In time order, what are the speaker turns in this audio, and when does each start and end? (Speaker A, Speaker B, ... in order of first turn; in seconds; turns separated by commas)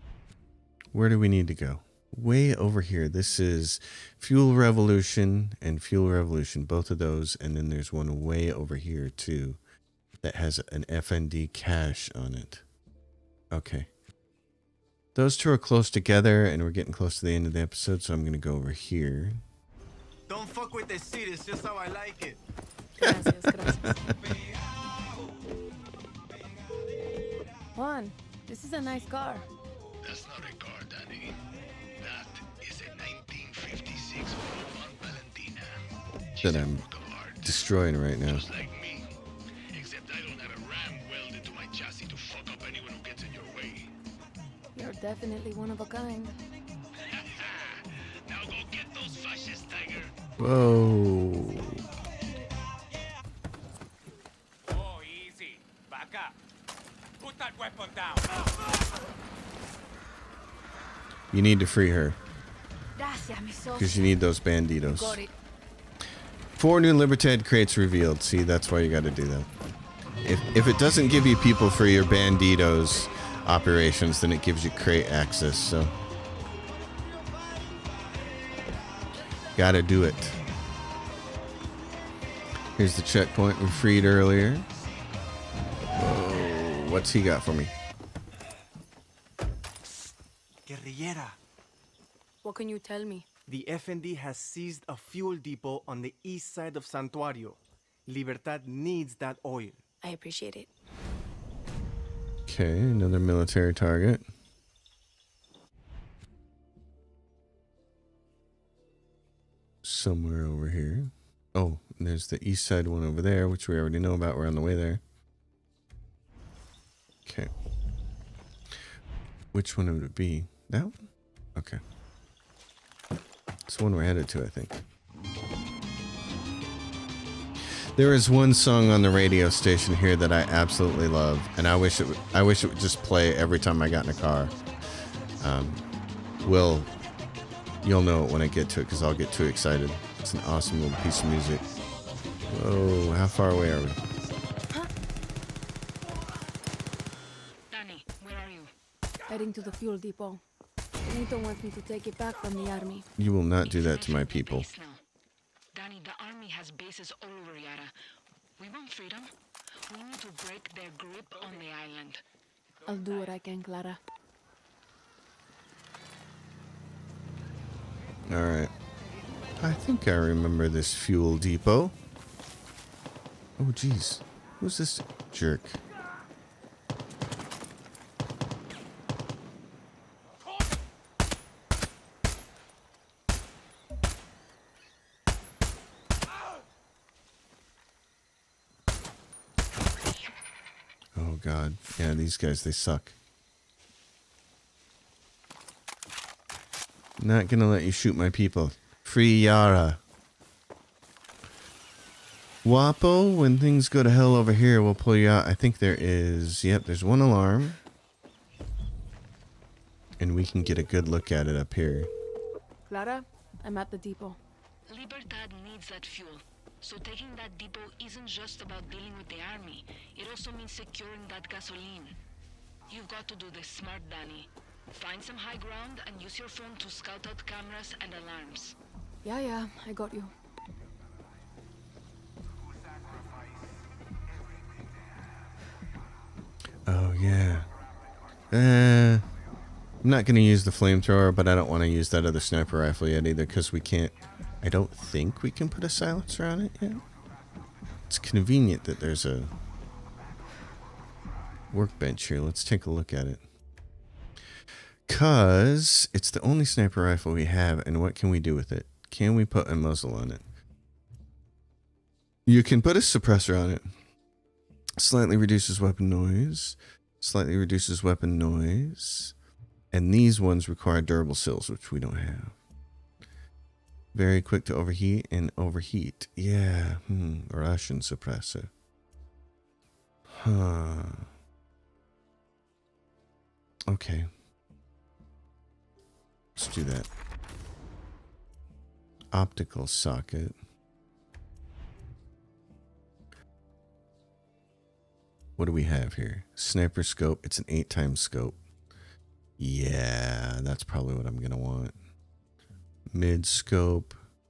Speaker A: 0.9-9.6, Speaker A: 10.2-12.6, Speaker A: 13.5-13.9, Speaker A: 15.2-19.4, Speaker B: 20.3-22.4, Speaker C: 23.0-24.0, Speaker A: 23.0-24.3, Speaker C: 27.8-29.5, Speaker D: 30.0-31.4, Speaker D: 32.0-35.8, Speaker D: 36.4-37.6, Speaker A: 36.4-36.8, Speaker A: 37.4-38.5, Speaker D: 38.2-39.1, Speaker D: 39.7-43.9, Speaker C: 44.8-46.4, Speaker D: 47.0-50.2, Speaker A: 50.4-51.8, Speaker D: 54.7-56.3, Speaker D: 57.2-58.4, Speaker A: 61.3-62.2, Speaker C: 63.0-64.1, Speaker A: 63.8-65.2, Speaker C: 65.0-65.3, Speaker A: 66.6-69.5, Speaker A: 70.2-75.9, Speaker A: 79.5-80.4, Speaker A: 82.8-84.7, Speaker A: 86.0-87.7, Speaker B: 90.7-91.4, Speaker C: 92.4-93.3, Speaker B: 93.5-99.8, Speaker C: 100.0-100.7, Speaker A: 102.5-104.2, Speaker A: 109.8-115.0, Speaker A: 117.2-117.5, Speaker A: 119.5-121.0, Speaker A: 121.6-121.8, Speaker A: 123.7-124.8, Speaker A: 128.0-134.6, Speaker A: 135.4-135.8, Speaker A: 136.4-136.9, Speaker A: 137.8-141.7, Speaker A: 142.5-144.0, Speaker E: 147.7-148.7, Speaker C: 149.3-150.4, Speaker C: 151.1-153.1, Speaker A: 153.2-154.7, Speaker E: 153.6-155.0, Speaker E: 155.7-157.9, Speaker E: 158.6-159.3, Speaker E: 159.9-162.2, Speaker C: 162.8-164.0, Speaker A: 168.3-168.7, Speaker A: 169.6-171.9, Speaker A: 173.6-175.8, Speaker A: 191.2-193.2, Speaker A: 197.2-200.0, Speaker A: 202.6-207.8, Speaker A: 210.2-212.1, Speaker C: 212.9-214.4, Speaker E: 214.9-222.2, Speaker E: 222.9-228.8, Speaker C: 229.2-230.3, Speaker A: 236.9-237.7, Speaker A: 238.5-239.3, Speaker A: 240.0-247.0, Speaker A: 248.1-249.5, Speaker A: 251.7-253.4, Speaker A: 255.1-260.4, Speaker A: 262.5-263.8, Speaker A: 265.0-269.3, Speaker A: 269.9-272.6, Speaker A: 274.1-278.7, Speaker A: 280.3-281.3, Speaker A: 283.9-284.3, Speaker A: 286.6-287.1, Speaker A: 289.3-290.6, Speaker A: 295.6-298.6, Speaker A: 299.6-301.9, Speaker A: 303.1-304.2